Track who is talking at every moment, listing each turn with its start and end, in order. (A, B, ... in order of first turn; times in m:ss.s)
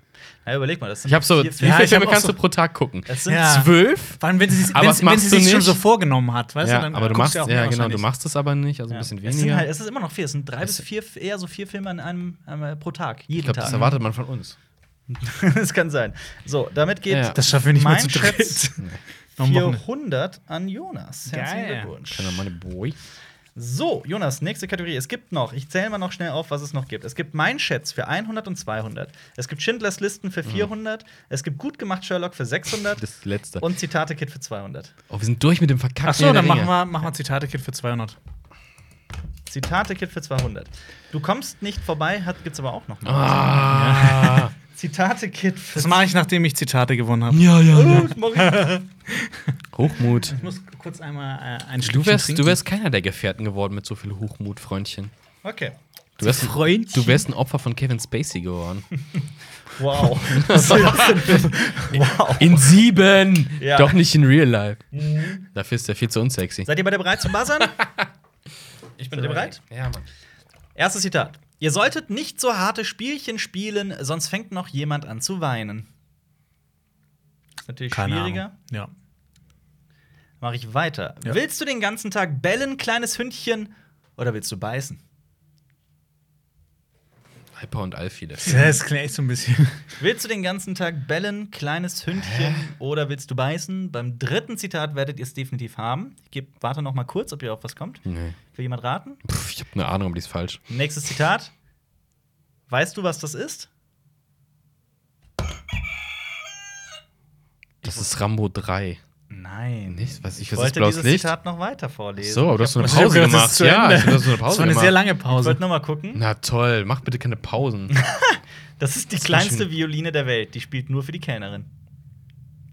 0:00.4-0:02.3 A
0:01.1-0:05.8 B
0:01.6-0:02.3 C
0:03.1-0:03.6 A
0:03.2-0:08.0 C
0:06.6-0:09.7 B
0:06.9-0:07.2 A
0:08.9-0:13.8 A
0:13.4-0:14.6 B
0:13.6-0:14.0 C
0:15.1-0:18.7 A
0:17.1-0:17.4 B
0:17.3-0:19.8 C
0:19.4-0:22.5 A
0:21.3-0:21.9 C
0:22.1-0:23.0 B
0:23.6-0:33.0 A
0:33.0-0:33.6 B
0:33.6-0:34.9 A
0:35.1-0:36.7 B
0:36.0-0:38.2 C
0:39.5-0:43.7 A
0:43.0-0:44.5 B
0:43.7-0:44.5 C
0:44.7-0:46.0 A
0:45.7-0:47.5 C
0:47.3-0:48.1 B
0:47.7-0:48.8 A
0:48.4-0:49.5 C
0:49.7-0:50.4 B
0:50.3-0:52.6 C
0:51.8-0:55.1 B
0:55.4-0:55.7 A
0:56.2-0:58.8 B
0:56.2-0:57.2 C
0:59.7-1:02.7 A
1:00.2-1:01.4 B
1:00.5-1:01.9 C
1:02.4-1:06.7 B
1:03.6-1:04.0 A
1:04.9-1:05.4 A
1:06.6-1:07.8 A
1:07.5-1:08.1 B
1:09.0-1:10.1 B
1:09.1-1:09.6 A
1:10.8-1:15.9 A
1:17.7-1:18.5 A
1:17.9-1:18.9 C
1:20.4-1:25.0 A
1:27.5-1:28.8 B
1:28.4-1:29.8 C
1:30.0-1:39.2 A
1:32.1-1:32.7 B
1:38.0-1:38.4 B
1:39.2-1:40.6 B
1:40.7-1:41.5 A
1:42.7-1:43.7 A
1:47.8-1:48.1 A
1:47.8-1:49.0 B
1:49.3-1:53.3 A
1:49.9-1:51.3 B
1:52.2-1:55.0 B
1:52.8-1:55.6 C
1:55.3-1:56.2 A
1:56.1-1:58.0 B
1:57.9-2:01.7 A
1:59.2-1:59.7 B